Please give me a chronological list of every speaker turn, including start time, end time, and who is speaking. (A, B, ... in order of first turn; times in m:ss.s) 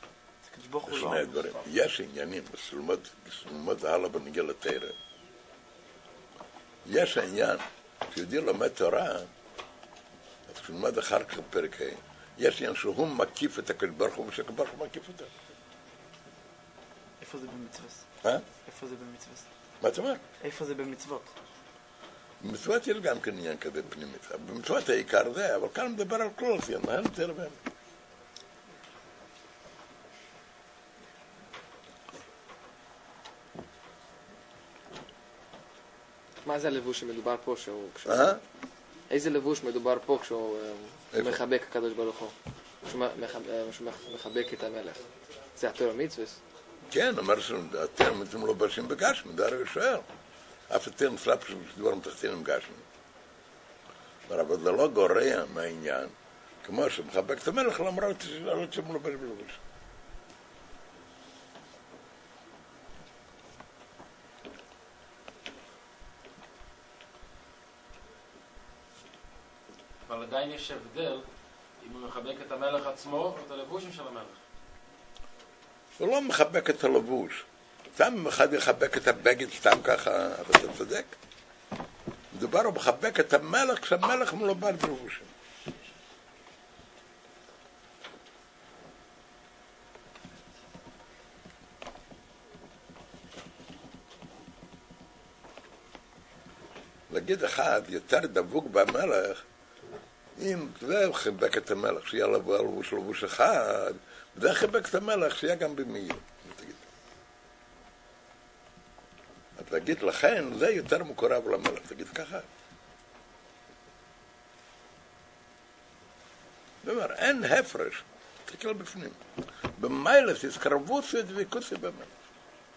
0:00.4-0:01.6 A
0:00.9-0:05.0 B
0:06.8-0:09.3 B
0:10.5-0:15.3 B
0:17.2-0:18.1 A
0:18.6-0:19.5 A
0:19.8-0:20.2 B
0:20.4-0:21.3 A
0:22.4-0:27.6 B
0:36.4-0:38.4 C
0:38.1-0:38.4 B
0:39.1-0:45.0 C
0:41.1-0:41.4 B
0:45.6-0:46.4 C
0:46.9-0:50.1 B
0:50.7-0:52.8 B
0:54.3-0:59.6 B
1:10.1-1:11.2 D
1:11.8-1:14.4 D
1:16.0-1:17.4 B
1:18.0-1:21.2 B
1:22.3-1:25.3 B
1:37.1-1:39.4 B
1:40.4-1:46.8 B
1:49.6-1:52.5 B
1:56.8-1:59.2 B
1:59.8-2:02.1 B